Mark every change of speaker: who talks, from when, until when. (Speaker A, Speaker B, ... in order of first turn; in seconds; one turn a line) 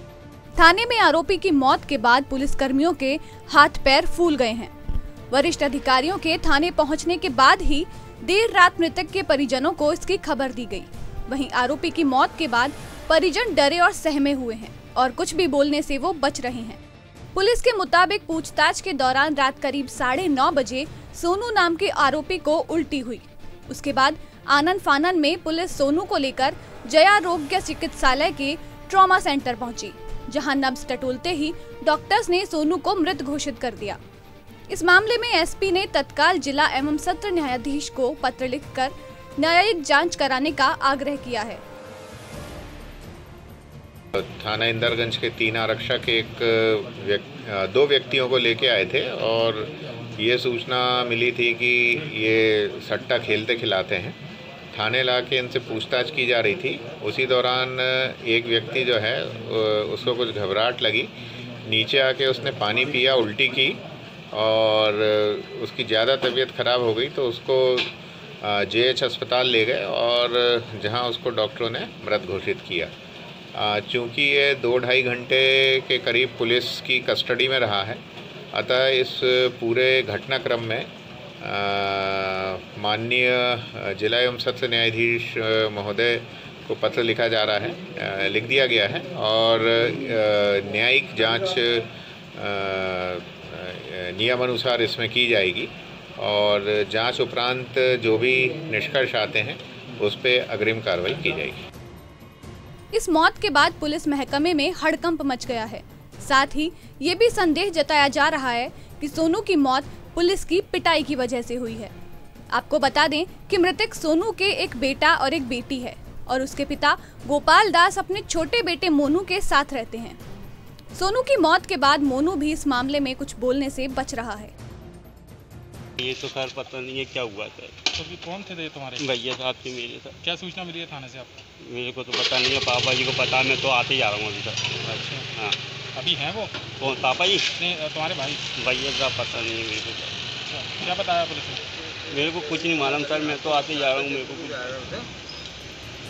Speaker A: 0.6-4.7
Speaker A: 5.3-16.8
Speaker A: 17.3-34.0
Speaker A: 34.7-41.6
Speaker B: 44.2-54.2
Speaker B: 54.7-72.9
Speaker B: 73.5-78.0
Speaker B: 78.5-101.6
Speaker A: 102.9-111.9
Speaker A: 112.5-120.2
Speaker A: 120.9-124.5
Speaker C: 126.0-127.8
Speaker D: 127.9-129.0
Speaker C: 129.0-130.2
Speaker D: 130.2-131.4
Speaker C: 131.6-134.8
Speaker D: 134.9-135.2
Speaker C: 135.3-135.6
Speaker D: 135.9-136.5
Speaker C: 136.8-137.5
Speaker D: 137.6-138.4
Speaker C: 138.6-140.2
Speaker D: 140.5-141.6
Speaker C: 142.1-145.1